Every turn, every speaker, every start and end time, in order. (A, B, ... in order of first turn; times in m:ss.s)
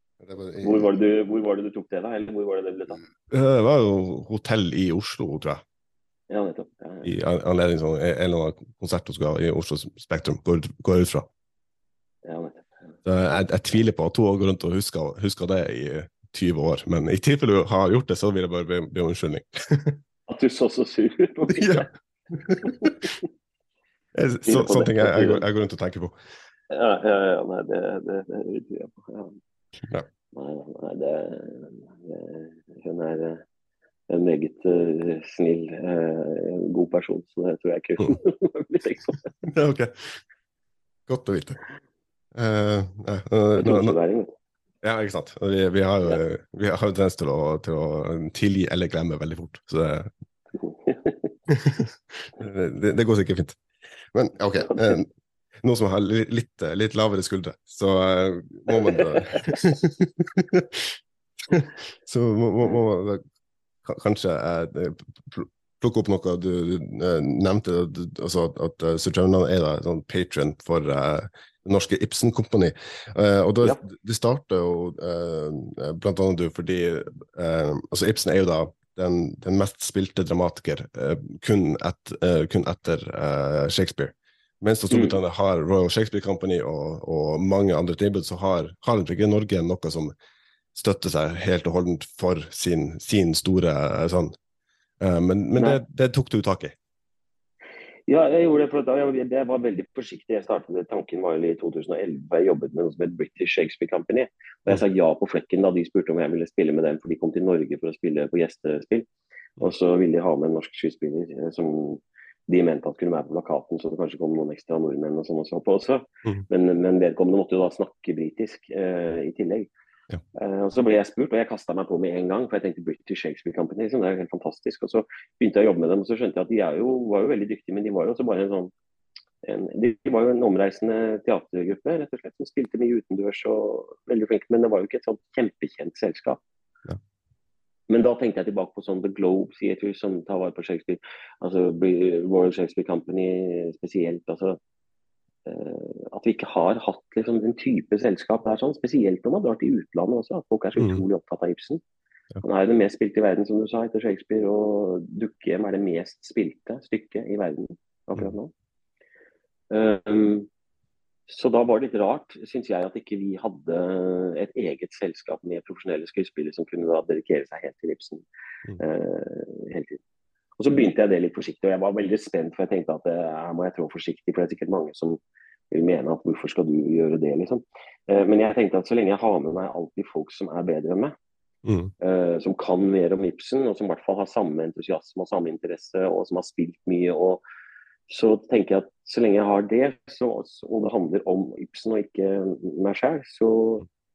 0:00.2-0:00.8 A
0:00.6-0:03.0 B
0:03.3-0:05.6 A
0:06.3-0:07.1 B
0:07.0-0:11.3 A
0:12.2-0:12.7 B
0:13.0-0:20.0 A
0:20.3-0:21.9 B
0:21.5-0:22.9 A
0:22.6-0:23.1 B
0:24.2-0:26.2 A
0:24.5-0:25.4 B
0:26.7-0:29.4 B
0:30.3-0:33.4 B
0:34.1-0:39.3 B
0:39.4-0:40.2 A
0:41.1-0:41.6 A
0:42.4-0:44.0 A
0:43.6-0:44.3 B
0:44.8-0:50.1 A
0:50.5-0:51.3 B
0:51.5-0:53.6 A
0:54.1-0:55.1 A
0:54.7-0:55.0 B
0:55.6-1:01.0 A
0:58.7-0:59.6 B
1:01.5-1:03.2 A
1:03.8-1:30.1 A
1:24.9-1:25.2 B
1:30.8-1:34.4 A
1:35.0-1:36.7 A
1:38.1-1:49.1 B
1:49.6-1:59.7 B
2:00.4-2:08.7 B
2:09.4-2:16.4 B
2:17.9-2:24.6 B
2:25.5-2:31.8 B
2:30.8-2:31.0 A
2:32.4-2:38.5 B
2:39.7-2:40.5 B
2:41.3-2:48.2 B
2:48.8-2:50.0 B
2:50.6-2:55.2 B
2:55.7-3:01.2 B
3:01.6-3:01.9 A
3:02.0-3:07.4 B
3:08.1-3:13.8 B